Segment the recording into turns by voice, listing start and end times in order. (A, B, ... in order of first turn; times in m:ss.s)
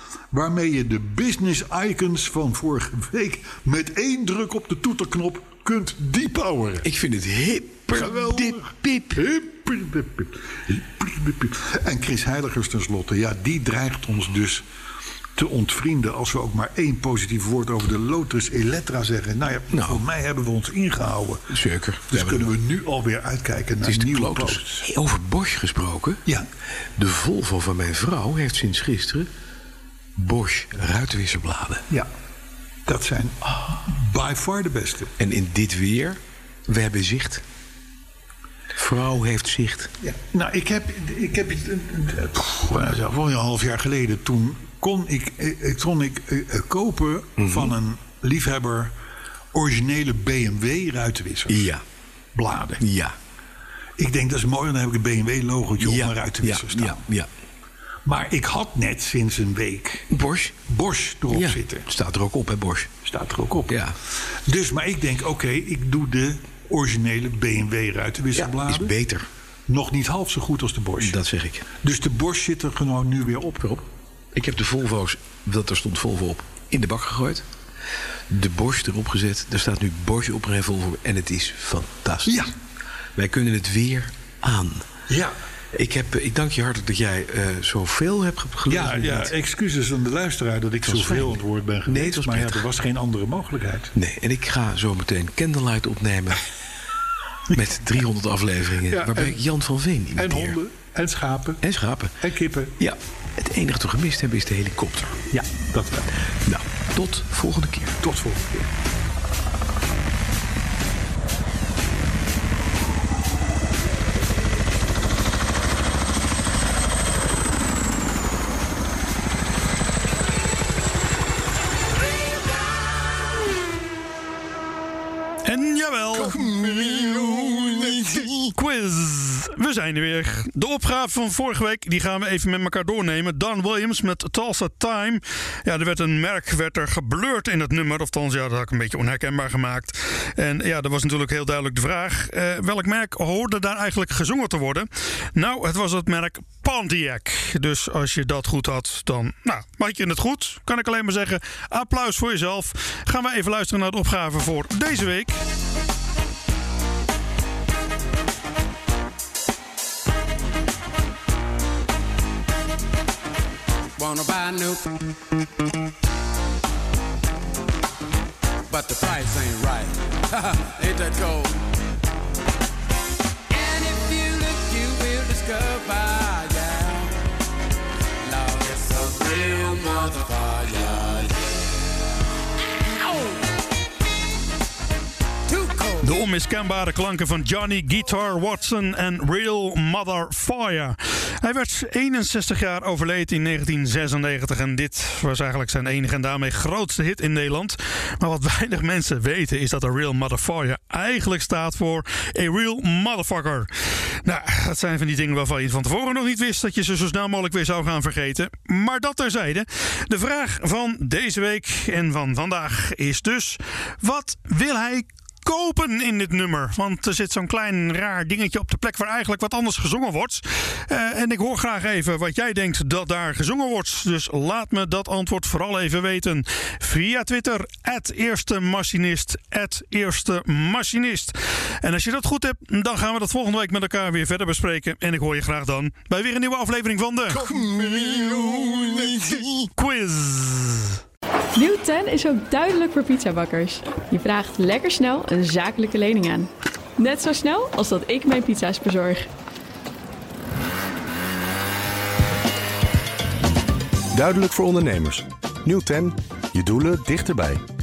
0:00.3-0:06.9 A
0:06.8-0:09.2 B
0:07.9-0:14.6 A
0:15.4-0:21.6 A
0:19.7-0:20.0 B
0:21.5-0:22.4 B
0:22.1-0:24.9 A
0:23.8-0:26.2 B
0:27.0-0:29.3 B
0:30.2-0:31.8 B
0:32.9-0:35.1 A
0:35.2-0:37.4 B
0:38.7-0:39.9 B
0:40.0-0:49.0 A
0:47.4-0:47.7 B
0:49.5-0:51.7 A
0:51.5-0:51.8 B
0:52.3-0:52.8 A
0:52.8-0:53.1 B
0:54.0-0:57.0 A
0:55.8-0:57.3 B
0:58.0-1:00.1 A
1:00.1-1:00.6 B
1:00.7-1:01.9 A
1:01.3-1:02.9 B
1:03.0-1:08.9 A
1:03.7-1:04.0 B
1:08.4-1:09.3 B
1:09.7-1:11.2 A
1:11.0-1:11.7 B
1:11.8-1:13.8 A
1:14.3-1:17.4 B
1:18.3-1:22.5 B
1:22.3-1:22.5 A
1:23.2-1:24.9 B
1:25.1-1:25.4 A
1:25.7-1:29.3 B
1:28.7-1:33.9 A
1:30.8-1:32.6 B
1:34.0-1:36.4 B
1:37.5-1:40.6 B
1:38.9-1:39.4 A
1:40.2-1:41.6 A
1:41.6-1:42.2 B
1:42.2-1:42.8 A
1:42.8-1:45.2 B
1:45.3-1:46.1 A
1:46.4-1:48.0 B
1:48.0-1:48.7 A
2:05.4-2:35.4 C
2:44.0-2:45.1 D
2:48.7-2:51.7 D
2:53.5-2:57.3 D
2:58.2-3:02.0 D
3:02.6-3:03.6 D
3:05.5-3:06.2 D
3:06.0-3:23.7 C
3:24.2-4:00.9 C
4:01.6-4:09.3 E
4:14.1-4:17.6 F